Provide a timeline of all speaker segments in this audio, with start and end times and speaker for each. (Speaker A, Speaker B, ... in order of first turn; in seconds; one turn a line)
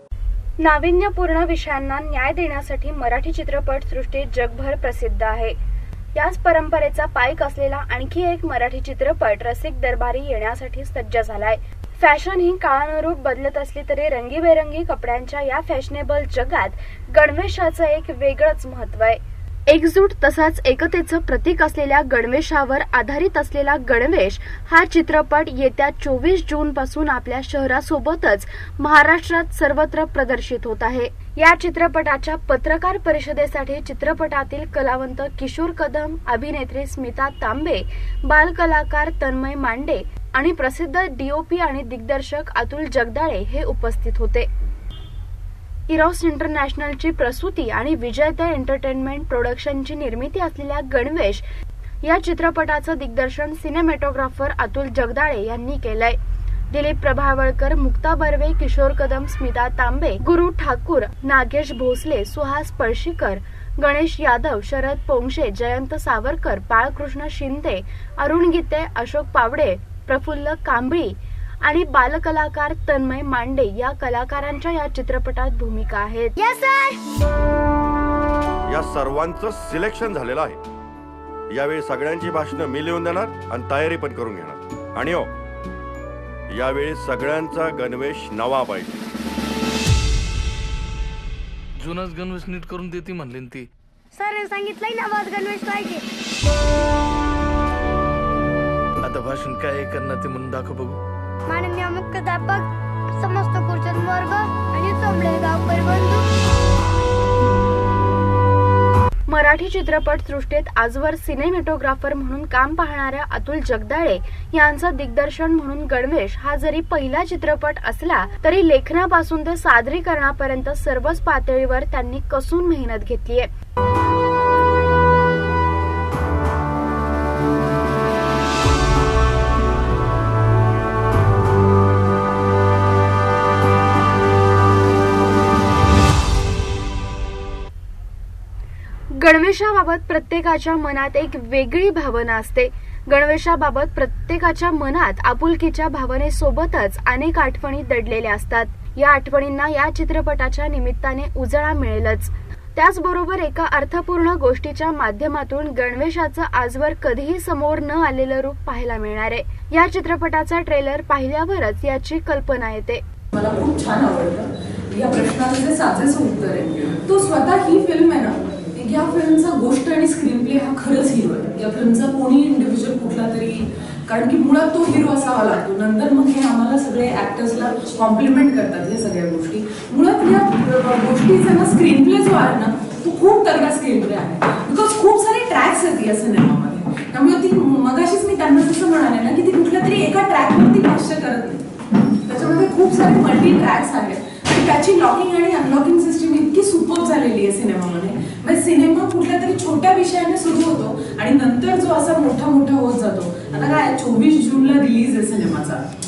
Speaker A: 0.6-5.6
Speaker A: 6.1-44.5
Speaker A: 45.9-51.5
Speaker A: 52.0-56.2
Speaker A: 56.7-76.3
Speaker B: 76.4-77.0
Speaker C: 78.7-80.6
Speaker C: 81.5-85.3
Speaker C: 86.5-89.0
Speaker D: 91.8-93.7
Speaker B: 94.1-96.0
Speaker D: 99.0-101.0
Speaker B: 101.5-106.2
Speaker A: 109.3-123.5
Speaker A: 139.2-163.0
Speaker E: 163.3-191.7
Speaker E: 192.3-205.9